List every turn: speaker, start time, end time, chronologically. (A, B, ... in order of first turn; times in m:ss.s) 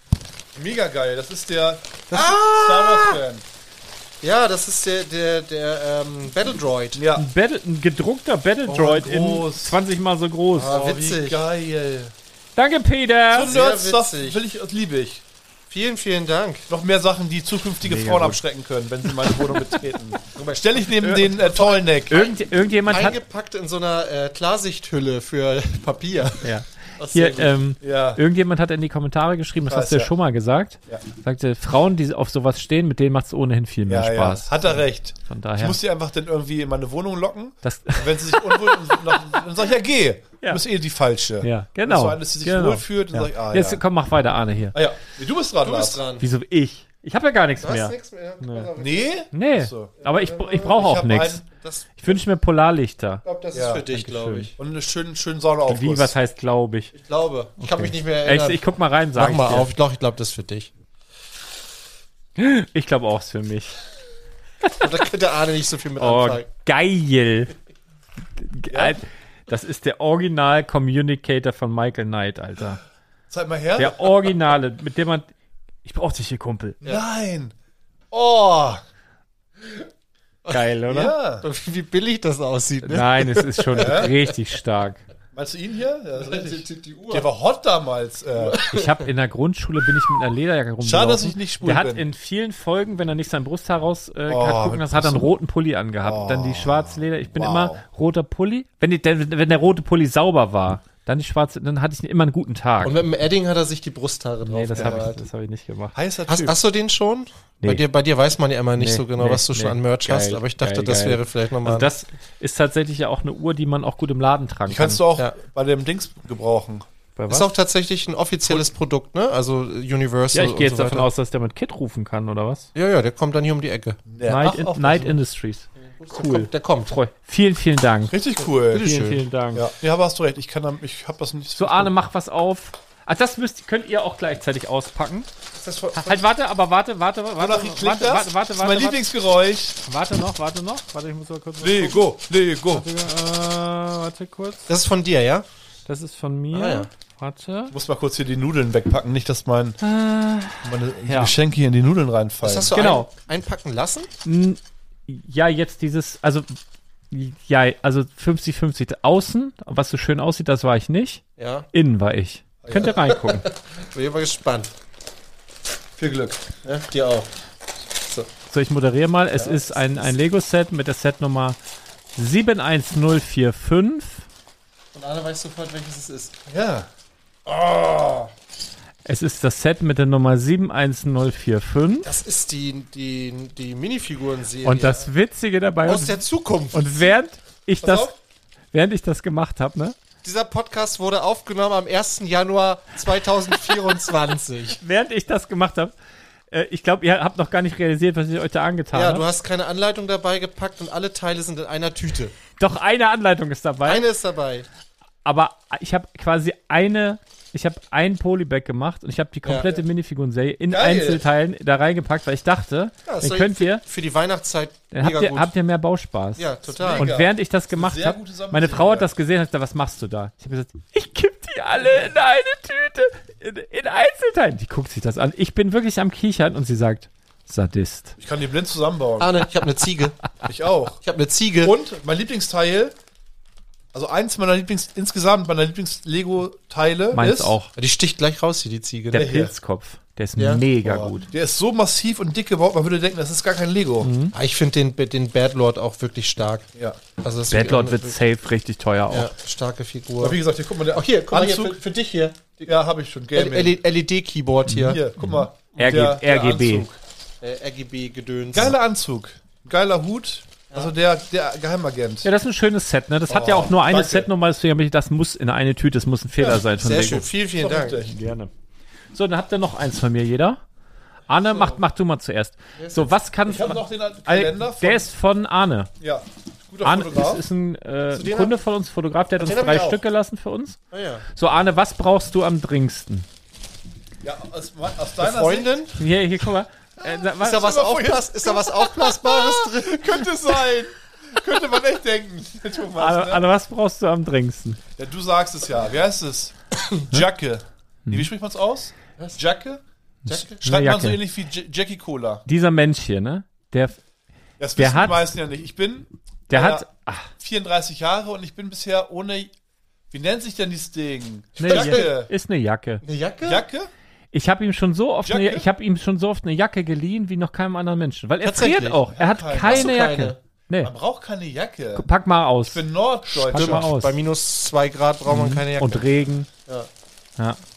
0:00.6-0:03.4 A
0:02.1-0:03.2 B
0:04.2-0:07.0 B
0:07.0-0:07.3 A
0:07.2-0:10.8 C
0:08.7-0:09.8 A
0:10.5-0:11.5 B
0:10.6-0:12.1 A
0:12.6-0:13.5 C
0:13.3-0:15.2 A
0:13.4-0:14.4 B
0:15.7-0:16.7 B
0:16.7-0:22.2 A
0:17.8-0:18.4 C
0:19.3-0:19.8 C
0:20.3-0:27.6 B
0:21.0-0:21.3 C
0:22.1-0:23.2 C
0:26.4-0:35.8 C
0:27.8-0:28.2 A
0:29.6-0:30.1 A
0:33.9-0:43.8 A
0:37.6-0:39.4 C
0:41.4-0:44.8 C
0:44.7-0:46.0 A
0:45.6-0:46.3 B
0:46.2-0:48.7 C
0:47.6-0:49.3 B
0:48.8-0:49.9 A
0:49.3-0:51.4 C
0:50.0-0:50.8 B
0:50.6-0:51.4 A
0:51.5-0:52.2 B
0:52.0-0:53.2 C
0:53.2-0:54.6 B
0:53.5-0:53.9 A
0:53.9-0:54.5 C
0:54.6-0:56.1 A
0:55.7-0:56.9 C
0:56.9-1:00.7 B
0:57.6-0:59.7 C
1:02.4-1:03.8 C
1:04.8-1:06.5 B
1:06.0-1:07.5 C
1:08.4-1:12.8 C
1:08.7-1:09.0 A
1:13.3-1:14.1 A
1:13.8-1:15.3 C
1:15.8-1:16.8 C
1:16.8-1:17.5 A
1:18.1-1:18.8 A
1:20.5-1:21.2 C
1:20.9-1:21.4 A
1:21.4-1:24.3 B
1:22.8-1:25.0 C
1:23.8-1:24.1 A
1:25.3-1:28.6 A
1:26.2-1:27.3 B
1:28.4-1:29.0 B
1:28.6-1:43.0 C
1:30.8-1:32.1 A
1:34.3-1:35.3 A
1:36.0-1:37.8 A
1:42.8-1:45.2 B
1:44.4-1:46.0 C
1:44.8-1:45.0 A
1:45.9-1:46.6 A
1:46.3-1:51.9 B
1:48.8-1:55.0 C
1:54.7-1:56.9 A
1:57.2-1:57.5 C
1:57.3-2:01.1 B
2:00.3-2:02.7 C
2:02.8-2:04.0 B
2:04.1-2:05.2 A
2:04.2-2:08.2 C
2:05.8-2:07.0 B
2:08.1-2:08.9 A
2:08.7-2:09.2 B
2:08.7-2:09.7 C
2:09.5-2:11.9 A
2:11.6-2:15.3 C
2:15.6-2:16.3 B
2:16.0-2:19.1 C
2:17.4-2:19.8 A
2:19.8-2:22.0 C
2:21.6-2:22.9 A
2:22.7-2:24.6 C
2:24.7-2:25.5 B
2:25.9-2:27.7 C
2:26.5-2:26.9 B
2:27.7-2:29.8 A
2:29.8-2:31.4 C
2:30.6-2:32.8 A
2:32.4-2:34.1 B
2:32.7-2:33.1 C
2:34.2-2:36.6 C
2:37.1-2:43.5 C
2:41.4-2:41.7 B
2:42.6-2:43.0 A
2:42.8-2:44.7 B
2:46.0-2:46.4 A
2:46.6-2:47.3 B
2:48.0-2:48.3 B
2:48.5-2:51.6 C
2:49.4-2:49.8 B
2:52.2-2:54.2 C
2:54.9-2:56.3 B
2:56.5-2:56.9 A
2:57.5-2:58.3 B
2:59.0-3:02.1 C
3:02.0-3:05.1 B
3:04.6-3:08.1 C
3:05.8-3:07.0 B
3:07.8-3:08.1 A
3:08.7-3:10.0 C
3:10.2-3:14.8 B
3:14.8-3:15.9 C
3:16.5-3:19.2 C
3:18.9-3:22.3 B
3:22.6-3:24.1 C
3:23.8-3:24.7 B
3:25.2-3:33.8 C
3:29.4-3:29.7 B
3:30.7-3:31.2 A
3:33.1-3:35.5 B
3:34.9-3:36.4 C
3:36.4-3:37.1 B
3:36.7-3:39.1 A
3:37.0-3:48.2 C
3:48.2-3:49.4 A
3:49.2-3:50.2 B
3:50.5-3:51.0 A
3:51.0-3:51.7 B
3:51.6-3:53.0 A
3:53.9-3:57.6 A
3:57.1-3:57.7 C
3:57.8-3:59.3 B
3:59.1-4:01.3 C
3:59.1-3:59.5 A
4:00.4-4:00.6 B
4:00.8-4:04.1 A
4:04.0-4:04.3 C
4:04.3-4:06.7 B
4:07.2-4:08.2 B
4:07.5-4:09.3 C
4:09.1-4:10.4 B
4:10.2-4:11.8 A
4:10.9-4:12.7 B
4:12.7-4:13.8 A
4:13.3-4:15.0 B
4:14.7-4:16.9 C
4:14.7-4:17.0 A
4:15.8-4:16.0 B
4:17.4-4:18.8 B
4:18.5-4:22.3 A
4:22.2-4:27.3 C
4:23.3-4:24.3 A
4:26.8-4:28.0 B
4:27.6-4:28.1 A
4:28.1-4:28.5 C
4:29.1-4:30.6 C
4:31.3-4:35.9 C
4:31.5-4:31.8 B
4:32.8-4:33.1 B
4:33.5-4:35.1 A
4:36.0-4:37.4 A
4:36.8-4:40.8 C
4:38.1-4:38.6 B
4:39.4-4:40.0 B
4:40.9-4:41.3 B
4:41.3-4:43.3 C
4:44.2-4:45.7 A
4:45.2-4:46.0 B
4:46.0-4:47.8 C
4:47.4-4:50.3 B
4:47.5-4:53.4 A
4:53.0-4:54.8 C
4:55.0-4:56.6 A
4:57.1-4:59.8 A
4:59.2-4:59.4 B
5:00.3-5:00.6 B
5:00.6-5:02.4 A
5:00.6-5:01.2 C
5:02.5-5:04.0 C
5:04.6-5:06.9 A
5:04.8-5:05.2 C
5:06.5-5:07.3 C
5:07.4-5:09.5 A
5:10.1-5:12.3 A
5:11.6-5:13.0 C
5:11.6-5:12.1 B
5:13.0-5:13.6 B
5:13.4-5:13.9 A
5:14.3-5:20.9 C
5:15.2-5:15.7 A
5:18.4-5:19.0 B
5:19.1-5:19.9 A
5:19.6-5:20.4 B
5:20.8-5:22.1 A
5:22.0-5:24.1 C
5:22.6-5:23.9 A
5:23.5-5:26.9 B
5:25.3-5:26.5 C